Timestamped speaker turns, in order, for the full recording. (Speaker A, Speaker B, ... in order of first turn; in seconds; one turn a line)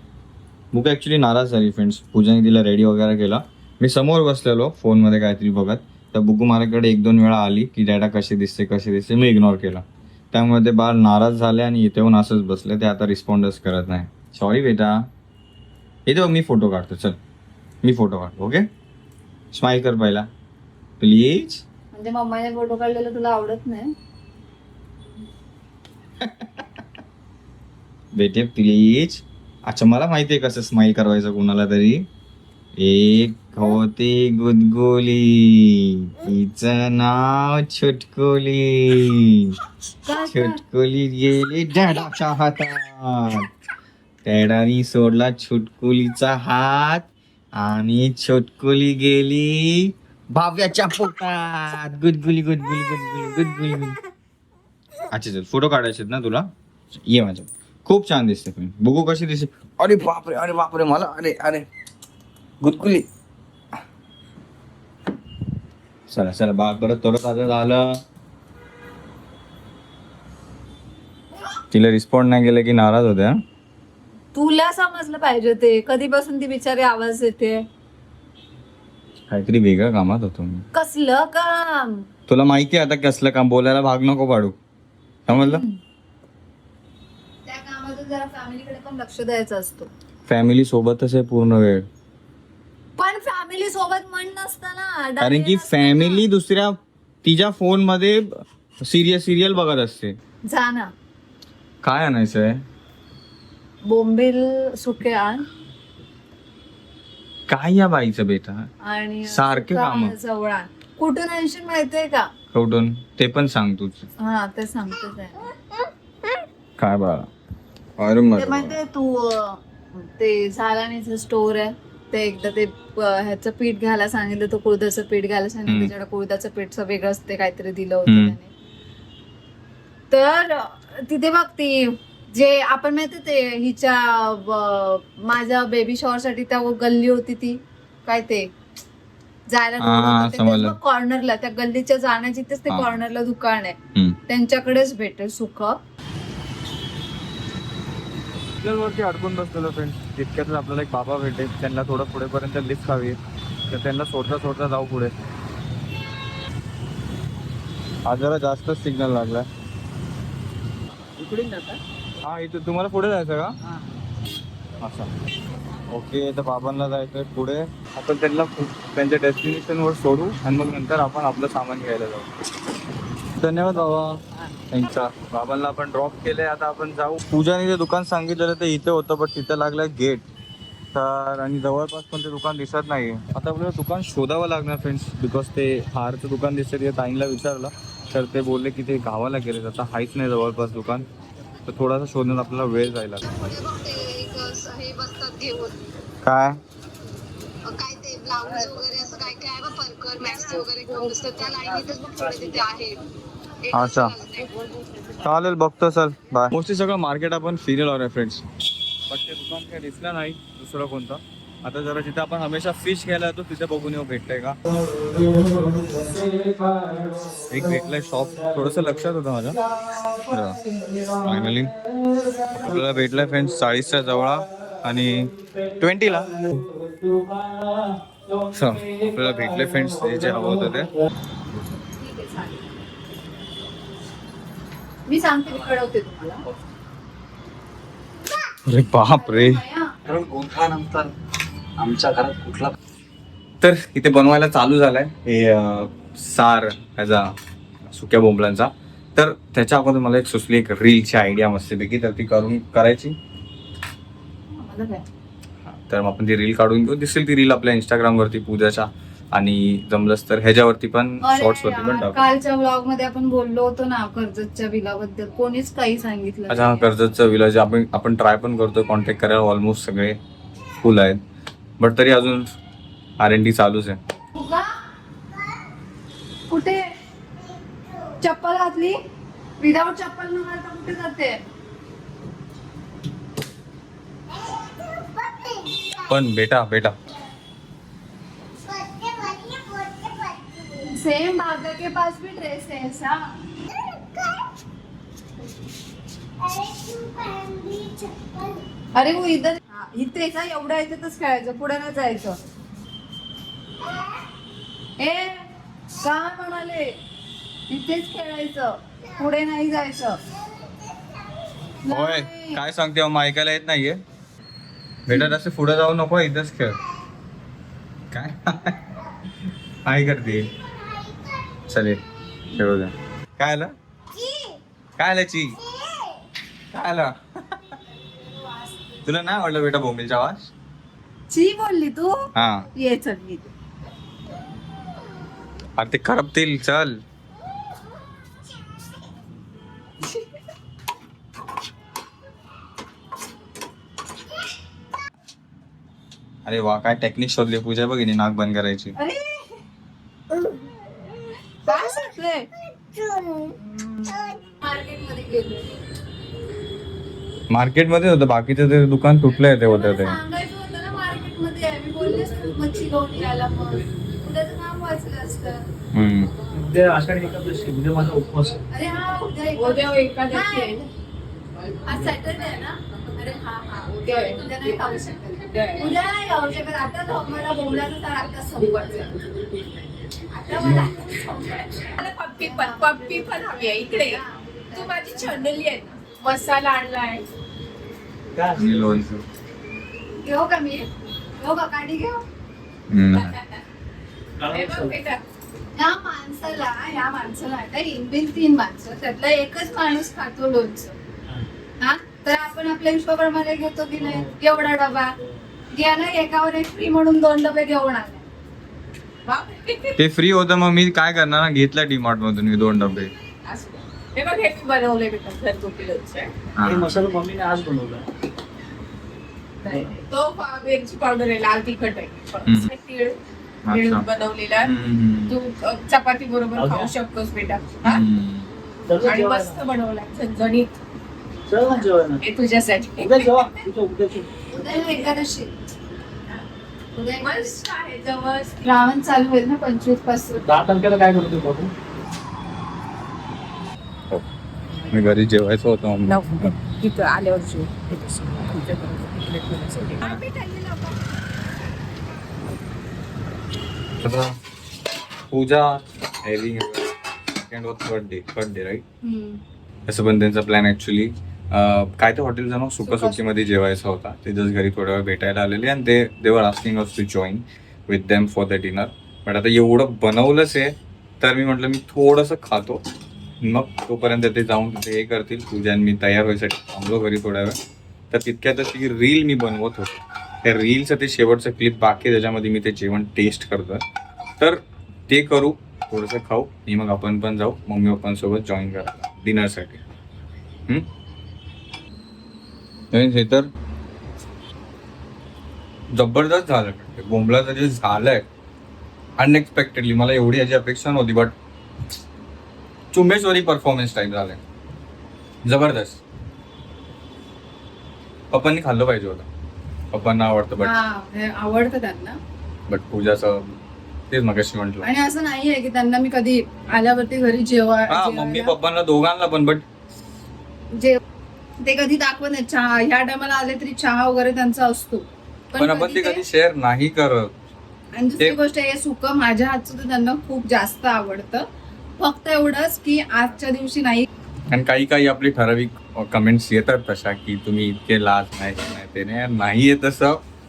Speaker A: 0.7-15.1
Speaker A: 16.1-17.2
Speaker A: 17.8-18.7
Speaker A: 19.5-20.3
Speaker A: 21.0-21.6
Speaker B: 21.9-23.9
Speaker A: 26.2-26.8
Speaker A: 28.1-32.1
Speaker A: 32.8-39.6
Speaker B: 40.0-40.6
Speaker A: 40.1-43.5
Speaker A: 44.2-54.0
Speaker A: 55.1-56.5
Speaker A: 57.0-61.6
Speaker A: 62.6-63.1
Speaker A: 66.1-68.0
Speaker A: 71.7-73.4
Speaker B: 74.3-77.7
Speaker A: 79.3-80.7
Speaker B: 80.7-82.0
Speaker A: 82.3-84.5
Speaker A: 85.3-85.6
Speaker B: 85.3-85.8
Speaker B: 87.5-89.9
Speaker A: 90.3-91.9
Speaker B: 93.0-96.3
Speaker A: 95.2-100.2
Speaker B: 100.5-100.9
Speaker A: 101.8-102.6
Speaker B: 103.8-105.4
Speaker A: 107.5-108.7
Speaker B: 108.8-112.3
Speaker A: 109.3-110.1
Speaker A: 112.5-114.1
Speaker B: 114.2-115.5
Speaker A: 116.8-117.3
Speaker A: 118.0-118.8
Speaker B: 118.3-128.5
Speaker A: 128.1-128.3
Speaker B: 130.1-138.5
Speaker B: 139.5-143.8
Speaker A: 139.8-140.8
Speaker A: 142.7-143.0
Speaker B: 144.3-145.8
Speaker A: 148.6-155.1
Speaker A: 158.0-159.5
Speaker C: 161.2-161.7
Speaker A: 162.2-163.6
Speaker A: 164.8-165.1
Speaker A: 165.9-172.3
Speaker A: 173.4-180.2
Speaker A: 180.9-191.1
Speaker A: 191.7-193.2
Speaker D: 193.2-195.8
Speaker A: 196.2-196.6
Speaker D: 197.6-203.1
Speaker D: 203.6-204.5
Speaker A: 203.7-204.2
Speaker A: 205.2-208.4
Speaker A: 209.1-214.6
Speaker A: 217.4-221.7
Speaker A: 222.5-226.7
Speaker A: 228.5-230.9
Speaker B: 232.0-232.7
Speaker B: 235.1-236.4
Speaker A: 238.6-241.1
Speaker B: 239.0-239.9
Speaker A: 241.8-242.7
Speaker A: 243.6-247.3
Speaker A: 247.8-253.2
Speaker B: 254.5-255.0
Speaker A: 255.6-262.2
Speaker B: 261.2-266.8
Speaker A: 266.5-270.2
Speaker A: 270.8-271.2
Speaker A: 271.8-272.5
Speaker A: 273.2-274.0
Speaker B: 274.4-274.7
Speaker B: 276.5-276.8
Speaker D: 277.4-278.2
Speaker B: 278.2-279.0
Speaker B: 279.6-281.4
Speaker D: 284.3-286.2
Speaker A: 286.1-286.9
Speaker D: 288.6-290.9
Speaker B: 290.8-293.3
Speaker D: 293.7-294.5
Speaker D: 296.4-298.6
Speaker B: 298.9-302.4
Speaker D: 303.8-304.2
Speaker B: 305.0-305.5
Speaker B: 306.0-307.0
Speaker B: 307.7-310.2
Speaker D: 310.6-311.3
Speaker B: 311.8-312.6
Speaker A: 311.9-314.0
Speaker A: 315.1-316.8
Speaker A: 318.1-318.8
Speaker A: 319.8-320.5
Speaker D: 320.5-321.6
Speaker A: 321.7-323.7
Speaker D: 324.1-324.6
Speaker A: 325.0-325.6
Speaker D: 325.6-326.2
Speaker A: 326.7-327.7
Speaker B: 328.3-328.9
Speaker A: 329.0-330.5
Speaker B: 331.3-333.5
Speaker A: 332.3-332.7
Speaker A: 335.8-337.0
Speaker A: 346.4-348.9
Speaker B: 348.9-349.5
Speaker D: 350.3-354.4
Speaker B: 351.6-352.5
Speaker B: 353.6-355.8
Speaker A: 357.5-360.2
Speaker B: 359.6-365.6
Speaker A: 365.9-366.3
Speaker E: 366.5-368.6
Speaker B: 368.7-370.9
Speaker C: 369.6-370.9
Speaker B: 371.8-379.4
Speaker C: 374.1-374.4
Speaker C: 375.5-375.9
Speaker B: 380.3-385.4
Speaker C: 380.6-380.9
Speaker C: 381.9-387.2
Speaker E: 388.3-389.0
Speaker A: 388.5-389.2
Speaker B: 390.2-392.2
Speaker A: 392.9-393.4
Speaker E: 394.4-395.0
Speaker C: 394.5-395.2
Speaker B: 395.7-400.9
Speaker B: 401.8-405.1
Speaker E: 404.0-404.3
Speaker B: 405.7-408.3
Speaker C: 409.2-410.0
Speaker A: 410.0-413.1
Speaker C: 413.4-416.3
Speaker A: 416.6-417.0
Speaker E: 416.6-418.1
Speaker C: 419.6-423.2
Speaker E: 419.7-419.9
Speaker A: 422.4-422.7
Speaker A: 423.6-424.1
Speaker C: 423.7-428.0
Speaker A: 424.6-425.4
Speaker E: 426.5-426.9
Speaker A: 427.8-428.5
Speaker E: 428.9-429.6
Speaker C: 429.0-430.7
Speaker E: 431.4-432.2
Speaker C: 431.6-433.5
Speaker E: 433.0-434.4
Speaker B: 434.5-435.5
Speaker B: 436.9-437.6
Speaker C: 437.2-438.7
Speaker B: 438.6-440.4
Speaker E: 440.4-441.7
Speaker A: 444.9-446.5
Speaker C: 446.1-450.9
Speaker B: 450.5-450.8
Speaker A: 454.0-454.3
Speaker A: 455.3-456.9
Speaker A: 457.5-458.8
Speaker B: 459.0-459.4
Speaker A: 459.9-472.8
Speaker B: 462.8-463.2
Speaker A: 473.4-477.6
Speaker A: 478.1-483.8
Speaker A: 484.4-489.8
Speaker A: 492.9-493.5
Speaker A: 495.9-498.3
Speaker A: 499.2-501.4
Speaker A: 502.9-504.4
Speaker A: 505.4-506.0
Speaker A: 508.3-509.3
Speaker A: 509.9-510.7
Speaker B: 510.6-512.2
Speaker A: 512.7-513.6
Speaker A: 514.1-514.9
Speaker B: 514.8-518.5
Speaker A: 517.9-519.6
Speaker B: 520.7-521.0
Speaker B: 521.6-526.2
Speaker A: 525.5-527.3
Speaker B: 527.9-531.5
Speaker B: 532.0-534.1
Speaker A: 534.5-540.2